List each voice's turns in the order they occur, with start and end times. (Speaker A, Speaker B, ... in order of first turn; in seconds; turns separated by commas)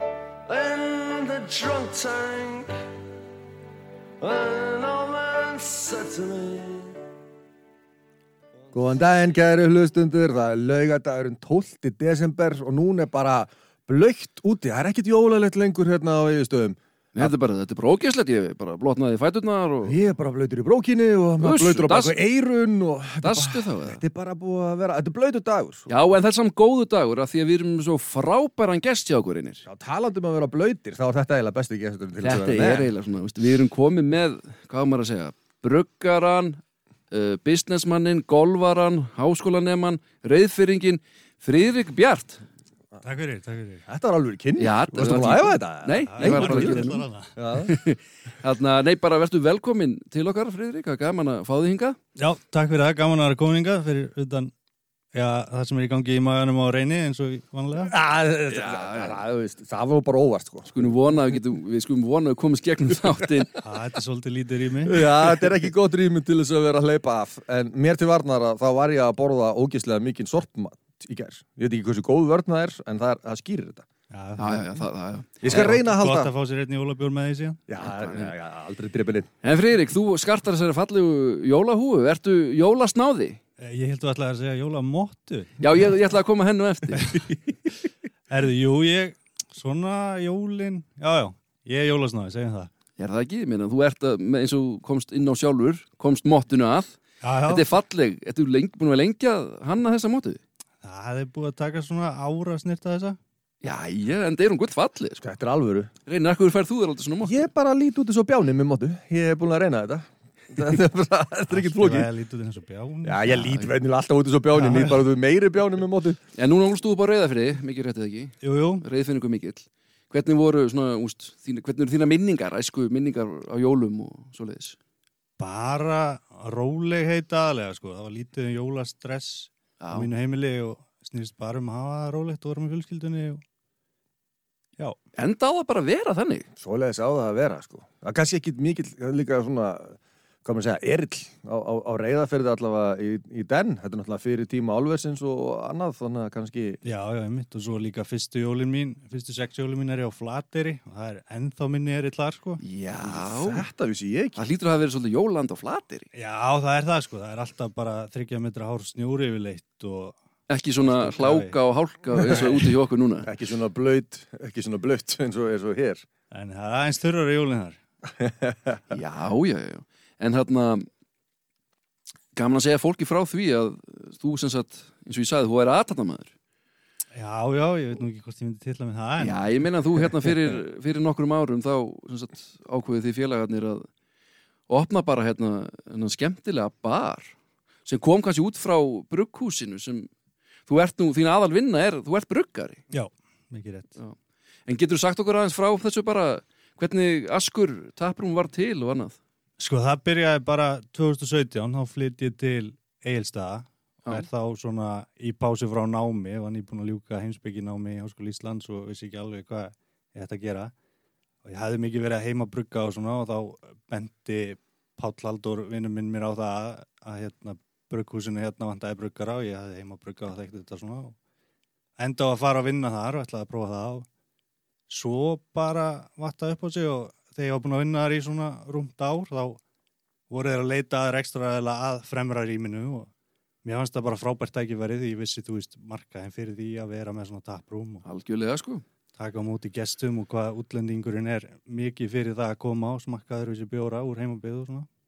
Speaker A: 0.5-2.7, Speaker A: 4.2-7.0, Speaker B: 8.7-17.3, Speaker C: 17.2-20.0, Speaker B: 19.8-25.9, Speaker C: 21.4-22.2, Speaker C: 23.2-24.0, Speaker C: 25.9-29.6, Speaker B: 29.7-32.9, Speaker C: 32.2-36.6, Speaker C: 37.1-42.4, Speaker D: 43.0-43.9, Speaker B: 43.9-47.8, Speaker C: 44.6-47.1, Speaker D: 46.1-47.4, Speaker C: 47.6-52.0, Speaker D: 52.2-54.5, Speaker D: 55.1-58.0, Speaker B: 57.8-60.9, Speaker C: 58.5-59.2, Speaker C: 60.7-63.5, Speaker D: 63.6-65.3, Speaker B: 64.9-73.9, Speaker D: 74.1-74.9, Speaker C: 74.4-75.8, Speaker B: 75.4-76.3, Speaker D: 75.4-77.6, Speaker B: 77.7-79.3, Speaker C: 77.8-78.3, Speaker C: 79.4-83.4, Speaker D: 83.6-85.5, Speaker C: 85.6-87.0, Speaker D: 87.0-87.2, Speaker D: 88.3-92.7, Speaker C: 93.0-100.4, Speaker D: 97.2-97.7, Speaker D: 100.8-103.2, Speaker C: 103.6-105.2, Speaker B: 105.2-105.9, Speaker C: 106.1-107.5, Speaker B: 107.2-112.1, Speaker D: 111.5-113.7, Speaker B: 113.0-116.2, Speaker D: 114.5-115.1, Speaker C: 116.4-124.8, Speaker D: 118.4-118.8, Speaker D: 125.4-133.4, Speaker C: 129.8-130.1, Speaker C: 135.2-136.5, Speaker B: 136.6-146.8, Speaker D: 146.8-152.6, Speaker C: 152.6-153.7, Speaker B: 152.9-154.4, Speaker C: 154.4-156.1, Speaker D: 156.1-160.2, Speaker C: 160.5-163.3, Speaker D: 160.8-161.6, Speaker B: 163.2-166.0, Speaker D: 166.3-167.8, Speaker B: 168.2-168.8, Speaker C: 168.9-170.8, Speaker C: 172.3-176.3, Speaker D: 177.1-179.6, Speaker C: 179.2-183.8, Speaker C: 184.7-187.3, Speaker C: 187.9-190.1, Speaker C: 190.7-192.9, Speaker D: 192.9-193.9, Speaker C: 194.7-199.2, Speaker D: 199.6-210.7, Speaker D: 211.4-221.2, Speaker D: 222.0-224.1, Speaker D: 224.9-229.6, Speaker D: 230.3-233.1, Speaker D: 233.6-238.0, Speaker C: 238.0-238.8, Speaker D: 239.2-244.9